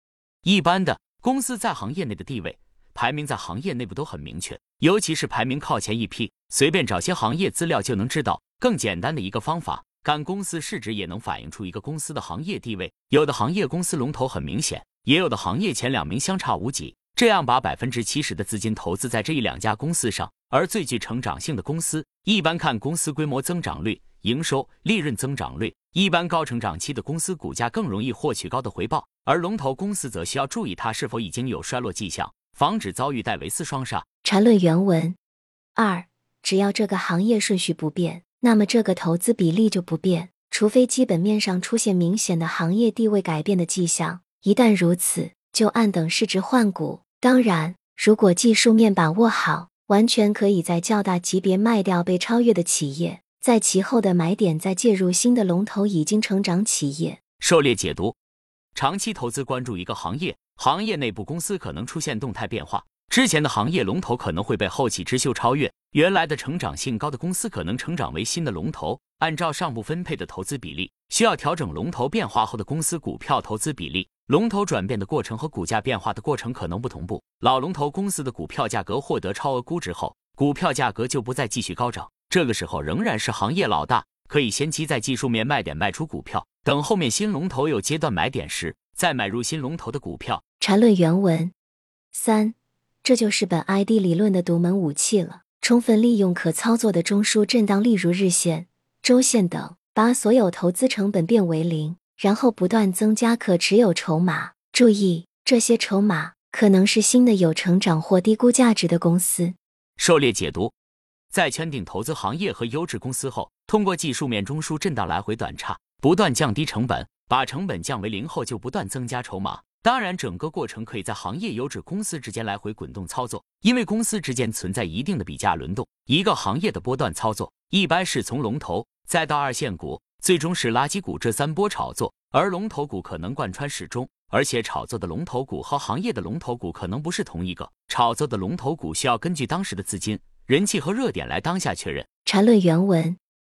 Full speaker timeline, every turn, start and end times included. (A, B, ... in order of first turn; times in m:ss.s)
0:00.4-0:34.0 A
0:34.2-0:35.2 B
0:35.8-0:57.2 B
0:57.4-0:58.2 A
0:58.7-1:30.4 A
1:30.6-1:31.5 B
1:32.1-1:49.6 B
1:50.0-1:50.7 A
1:51.3-2:22.1 A
2:22.2-2:23.2 B